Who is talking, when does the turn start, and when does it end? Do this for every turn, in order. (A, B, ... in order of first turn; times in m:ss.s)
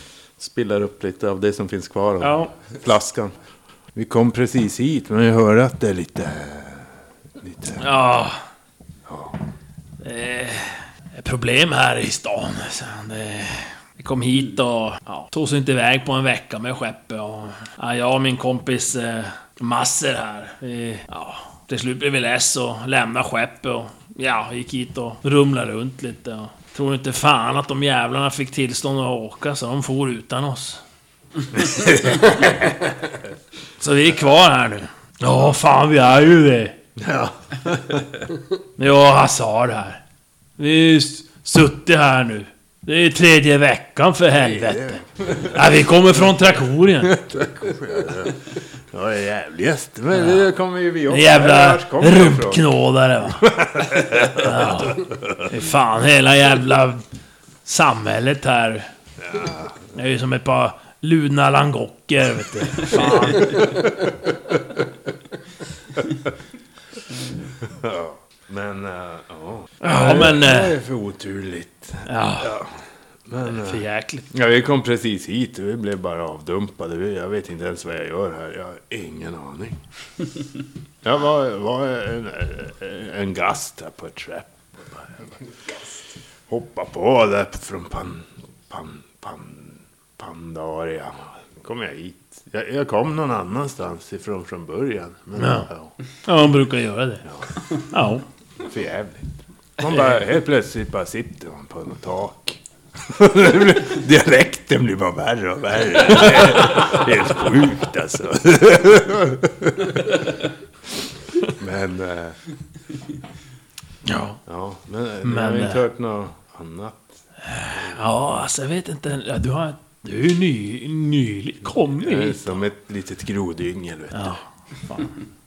0:00.4-0:03.3 A
0:02.2-0:02.5 B
0:04.0-0:08.0 A
0:07.8-0:08.4 B
0:09.1-0:09.4 A
0:10.0-0:30.8 B
0:31.5-0:32.7 A
0:33.8-0:36.8 B
0:37.0-0:38.1 A
0:38.8-0:40.0 B
0:40.6-0:47.2 B
0:44.3-0:45.6 A
0:47.0-0:52.7 A
0:50.2-0:50.4 B
0:51.1-0:53.5 B
0:53.4-0:55.5 A
0:54.3-0:57.0 B
0:57.6-0:58.9 B
0:59.2-0:59.8 A
0:59.9-1:03.8 B
1:07.6-1:19.8 A
1:09.8-1:10.8 B
1:12.1-1:12.5 B
1:13.4-1:14.3 B
1:21.0-1:25.9 A
1:26.5-1:35.9 A
1:35.4-1:35.7 B
1:36.2-1:38.2 B
1:37.3-1:37.5 A
1:38.6-1:50.2 A
1:51.5-1:52.4 A
1:54.1-1:54.4 B
1:54.5-1:57.2 A
1:55.2-1:55.8 B
1:57.4-2:02.6 B
1:57.7-1:58.0 A
2:02.0-2:04.4 A
2:04.1-2:05.2 B